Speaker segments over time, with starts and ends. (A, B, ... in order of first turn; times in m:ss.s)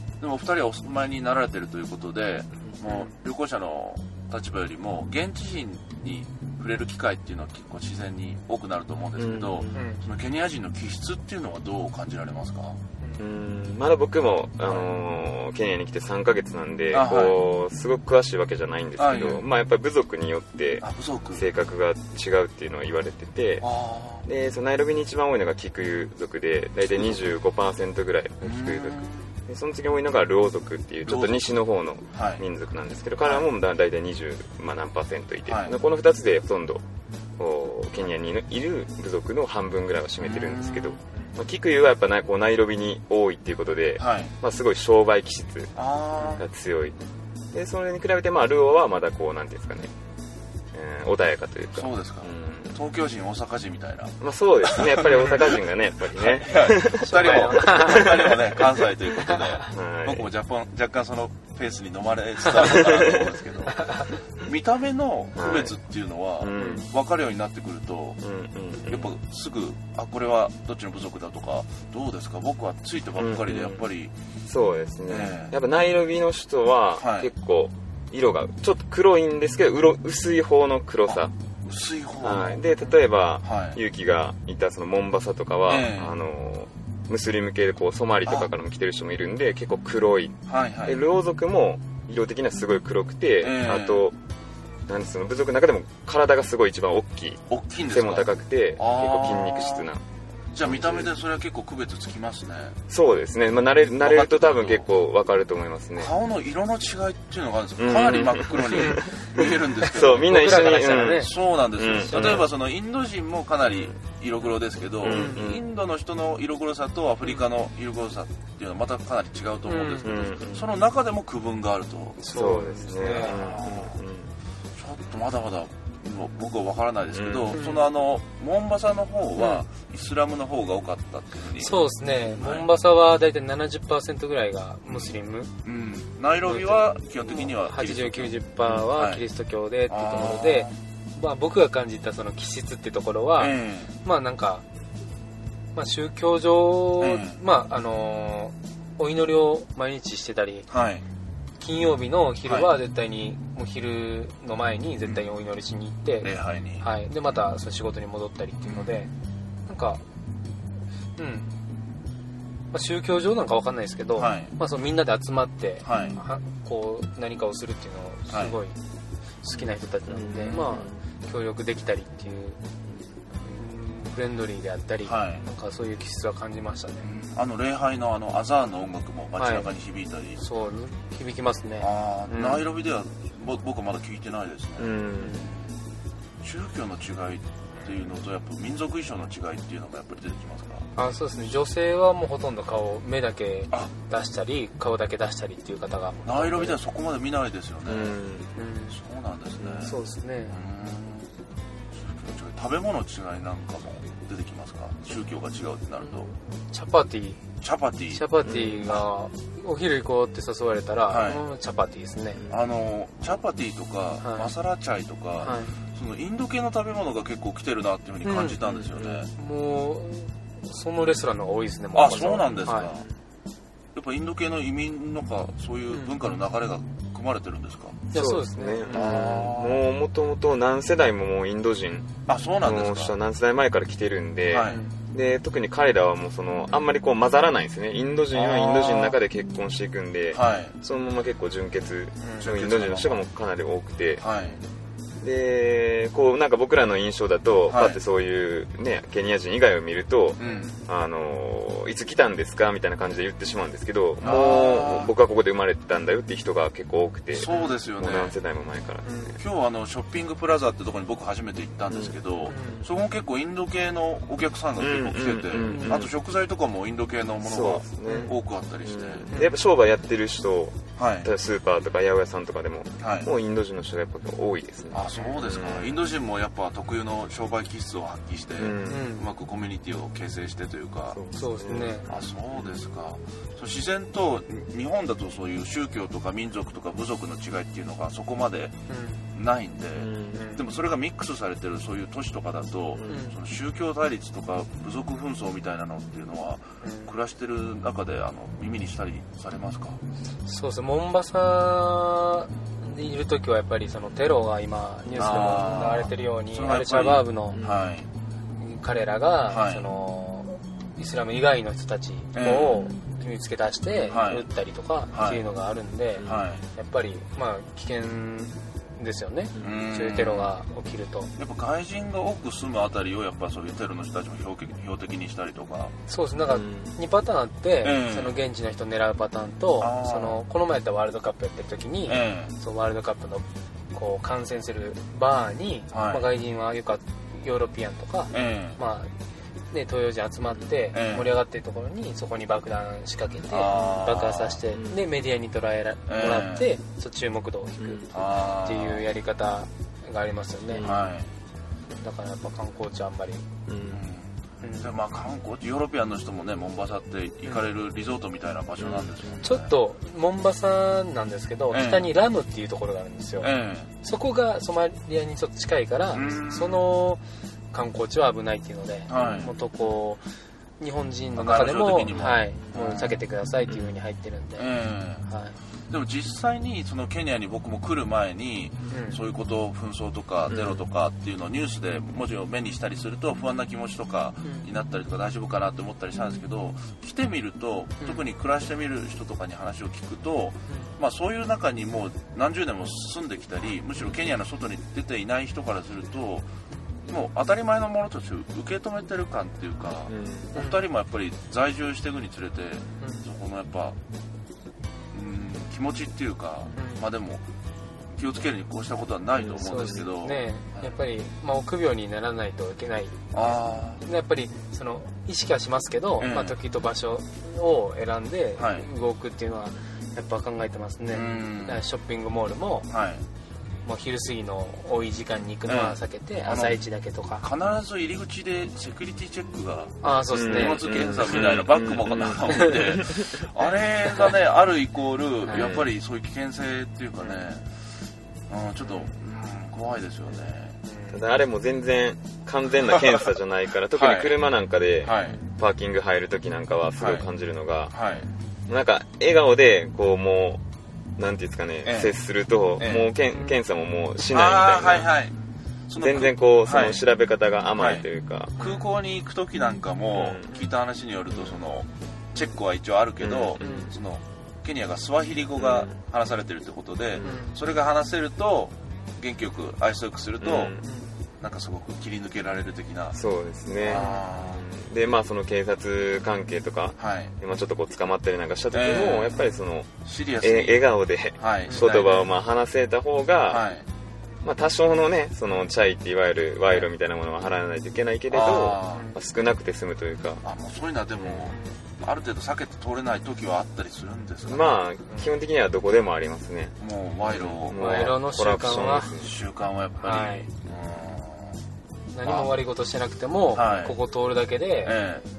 0:00.2-0:12.8 A
0:02.8-0:03.1 B
0:09.2-0:09.8 C
0:09.7-0:10.0 B
0:13.2-0:23.7 C
0:14.6-0:14.9 A
0:16.9-0:17.5 A
0:19.0-0:19.4 A
0:20.8-0:21.5 A
0:23.6-0:24.3 A
0:24.2-0:36.8 C
0:26.9-0:27.2 A
0:28.4-0:29.3 A
0:31.1-0:31.5 A
0:32.1-0:32.4 A
0:33.2-0:33.5 A
0:35.5-0:35.8 A
0:37.4-0:47.0 C
0:40.2-0:41.0 A
0:44.0-0:44.3 A
0:45.8-0:46.4 A
0:47.5-0:49.9 C
0:50.7-0:52.8 C
0:51.8-0:55.6 A
0:54.2-0:58.6 C
0:56.1-1:08.2 A
0:57.0-0:58.3 B
0:59.3-0:59.7 B
0:59.5-1:00.3 C
1:02.6-1:03.3 C
1:03.7-1:04.1 B
1:05.4-1:05.8 C
1:06.4-1:06.9 C
1:06.6-1:06.9 B
1:08.2-1:09.1 C
1:08.9-1:14.1 A
1:13.2-1:13.8 C
1:14.5-1:21.3 C
1:15.1-1:15.6 A
1:17.0-1:17.3 A
1:21.1-1:22.6 A
1:22.2-1:34.2 C
1:23.4-1:23.8 A
1:25.7-1:26.2 A
1:30.5-1:31.0 A
1:33.4-1:34.1 A
1:34.9-1:40.0 C
1:37.5-1:39.9 A
1:40.5-1:42.8 A
1:40.6-1:41.1 C
1:42.9-1:46.1 C
1:44.0-1:44.9 A
1:46.0-2:02.2 A
1:47.8-1:52.5 C
1:48.7-1:49.2 B
1:50.1-1:51.3 B
1:52.0-1:52.4 B
1:55.0-1:55.6 C
1:55.1-1:55.4 B
1:59.7-2:00.2 B
2:00.0-2:00.7 C
2:02.2-2:03.4 B
2:02.3-2:04.3 C
2:03.0-2:04.0 A
2:04.8-2:12.7 A
2:07.1-2:07.6 C
2:07.5-2:07.9 B
2:11.6-2:15.5 B
2:14.9-2:19.2 A
2:16.5-2:24.6 B
2:19.9-2:20.7 A
2:23.4-2:24.0 A
2:25.8-2:30.7 B
2:27.0-2:27.4 A
2:30.7-2:31.0 A
2:31.6-2:39.1 B
2:32.5-2:32.7 A
2:36.2-2:36.9 A
2:38.6-2:39.0 A
2:39.7-2:40.0 B
2:41.2-2:41.5 B
2:42.7-2:48.8 B
2:44.2-2:44.5 A
2:45.8-2:46.2 A
2:48.3-2:48.6 A
2:49.4-2:52.6 B
2:50.1-2:51.0 C
2:50.4-2:50.8 A
2:53.4-2:57.1 B
2:55.0-2:55.4 A
2:57.0-3:00.4 A
2:59.4-2:59.7 B
3:00.4-3:02.6 B
3:01.8-3:05.6 A
3:04.8-3:05.4 C
3:05.2-3:05.5 B
3:06.4-3:10.9 A
3:11.0-3:16.8 B
3:16.3-3:18.2 A
3:17.9-3:18.5 C
3:18.6-3:19.0 B
3:18.9-3:20.0 A
3:19.6-3:19.9 C
3:19.8-3:20.6 B
3:20.5-3:21.3 A
3:21.9-3:26.3 A
3:26.1-3:27.4 B
3:27.6-3:29.0 A
3:28.1-3:32.4 B
3:28.4-3:28.9 C
3:31.1-3:31.4 A
3:32.5-3:39.3 A
3:34.2-3:34.5 B
3:35.4-3:35.8 B
3:38.2-3:38.8 B
3:38.9-3:39.2 C
3:39.4-3:42.9 B
3:41.9-3:43.1 A
3:44.0-3:48.0 A
3:48.1-3:49.2 B
3:48.1-4:04.3 C
3:48.9-3:49.9 A
3:52.3-3:53.2 A
3:54.5-3:54.8 A
3:54.7-3:54.9 B
3:58.3-3:59.2 A
4:00.3-4:00.8 A
4:02.2-4:02.5 B
4:02.4-4:03.2 A
4:04.2-4:04.6 A
4:05.2-4:19.4 C
4:07.7-4:08.0 A
4:10.4-4:10.8 A
4:14.2-4:15.1 A
4:17.3-4:18.4 A
4:17.5-4:17.8 B
4:19.0-4:19.4 B
4:19.4-4:29.5 A
4:22.5-4:22.9 B
4:24.8-4:26.1 C
4:25.6-4:26.1 B
4:27.4-4:36.0 C
4:28.1-4:28.3 B
4:31.0-4:31.3 A
4:33.0-4:33.3 A
4:34.9-4:41.2 A
4:38.6-4:39.1 C
4:38.9-4:39.3 B
4:41.1-4:42.7 C
4:41.4-4:42.1 B
4:42.1-4:48.8 A
4:48.9-4:49.3 B
4:49.3-5:00.0 A
4:50.0-4:50.4 C
4:50.3-4:50.6 B
4:53.1-4:53.4 B
4:56.8-4:57.2 B
5:00.4-5:07.6 B
5:05.2-5:08.1 A
5:07.5-5:07.8 C
5:08.6-5:21.3 B
5:09.5-5:09.8 A
5:12.3-5:12.9 A
5:14.1-5:14.5 A
5:15.1-5:15.4 A
5:16.2-5:16.5 C
5:16.2-5:16.6 A
5:19.6-5:20.6 A
5:21.4-5:25.9 A
5:26.1-5:39.1 B
5:26.5-5:27.0 C
5:27.8-5:28.4 A
5:29.8-5:30.4 A
5:32.1-5:32.5 A
5:35.9-5:36.2 A
5:38.3-5:38.8 A
5:39.7-5:50.9 B
5:40.9-5:41.3 A
5:43.5-5:44.6 A
5:44.7-5:45.0 C
5:46.1-5:46.7 A
5:47.8-5:48.1 C
5:48.1-5:49.0 A
5:50.7-5:51.0 C
5:50.8-5:51.3 A
5:52.0-5:53.5 B
5:53.7-5:54.0 C
5:53.9-5:59.7 A
5:54.6-5:54.9 B
5:58.8-5:59.4 C
5:59.4-6:03.5 B
6:01.7-6:02.1 A
6:03.4-6:03.9 A
6:04.0-6:10.2 B
6:06.1-6:06.8 A
6:09.1-6:09.5 A
6:09.2-6:09.5 C
6:10.8-6:14.7 B
6:11.4-6:13.2 A
6:14.6-6:15.3 A
6:15.3-6:15.6 B
6:15.9-6:36.5 A
6:18.9-6:19.2 B
6:20.5-6:20.8 C
6:37.1-6:44.0 A
6:40.1-6:40.6 C
6:40.6-6:40.8 B
6:45.1-6:47.4 A
6:46.7-6:47.0 B
6:48.1-6:50.9 A
6:49.4-6:50.0 C
6:49.6-7:02.9 B
6:53.3-6:54.0 A
6:56.2-6:56.6 A
6:58.6-6:58.9 A
7:01.1-7:01.8 A
7:02.9-7:03.2 A
7:03.8-7:07.4 B
7:05.7-7:06.8 A
7:07.4-7:17.8 A
7:10.0-7:11.4 B
7:10.3-7:13.4 C
7:12.4-7:12.9 B
7:15.5-7:15.7 B
7:15.5-7:15.9 C
7:18.5-7:20.8 A
7:18.8-7:19.1 B
7:20.9-7:21.2 B
7:21.1-7:28.0 C
7:23.9-7:24.4 A
7:25.0-7:25.4 A
7:27.0-7:27.3 A
7:27.9-7:28.3 A
7:28.7-7:30.6 C
7:31.2-7:35.1 C
7:31.8-7:32.2 A
7:32.8-7:33.1 A
7:33.3-7:33.6 B
7:34.2-7:35.3 A
7:35.9-7:37.0 A
7:36.0-7:38.6 C
7:37.8-7:38.0 A
7:38.6-7:50.8 A
7:38.6-7:38.9 B
7:40.1-7:40.5 C
7:41.3-7:41.6 C
7:43.2-7:43.9 C
7:43.6-7:43.9 B
7:45.6-7:45.9 C
7:47.2-7:47.6 B
7:50.4-7:50.8 C
7:50.8-7:51.1 B
7:51.4-7:53.2 A
7:53.1-8:03.6 C
7:53.8-7:54.6 A
7:53.9-7:54.3 B
7:57.0-7:57.3 A
7:58.7-7:59.5 A
8:00.0-8:02.3 A
8:01.7-8:01.9 B
8:03.5-8:03.8 A
8:04.4-8:10.4 C
8:08.3-8:09.1 A
8:10.4-8:14.8 A
8:11.3-8:11.8 B
8:14.5-8:16.8 C
8:16.8-8:21.6 A
8:17.3-8:19.3 C
8:17.7-8:19.2 B
8:20.0-8:20.5 B
8:22.1-8:25.0 B
8:22.2-8:22.5 A
8:23.5-8:24.0 A
8:24.8-8:25.2 A